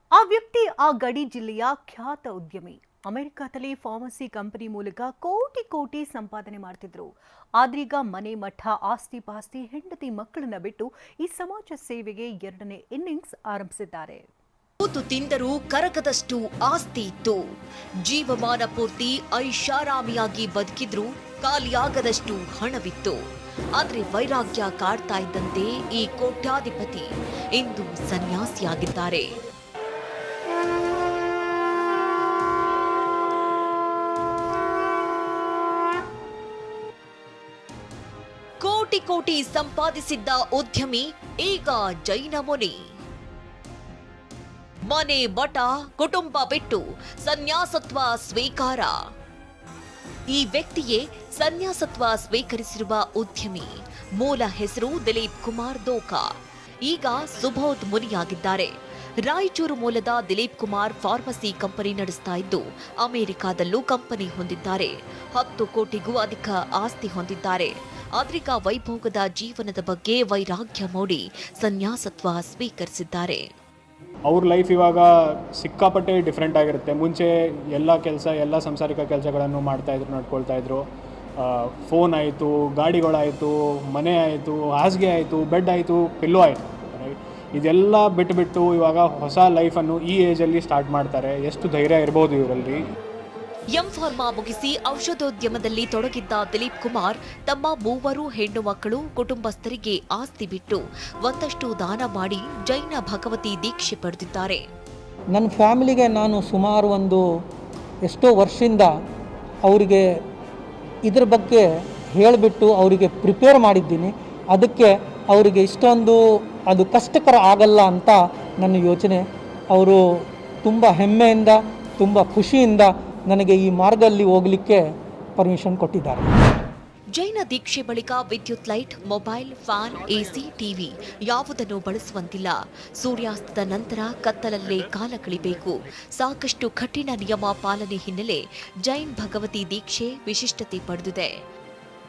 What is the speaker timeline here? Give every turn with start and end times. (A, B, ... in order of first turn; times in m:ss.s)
0:00.1-0:14.2 A
0:14.8-0:17.4 B
0:18.0-0:23.2 B
0:23.8-0:29.3 B
0:38.6-0:42.7 B
0:44.9-0:49.0 B
0:50.3-0:56.2 B
0:56.9-1:13.4 B
1:14.3-1:20.8 C
1:21.4-1:32.8 C
1:33.7-1:44.6 B
1:45.3-1:47.2 D
1:48.1-1:48.9 D
1:49.6-1:50.0 D
1:51.1-2:00.0 D
2:00.6-2:04.8 D
2:05.4-2:06.3 D
2:07.1-2:21.3 B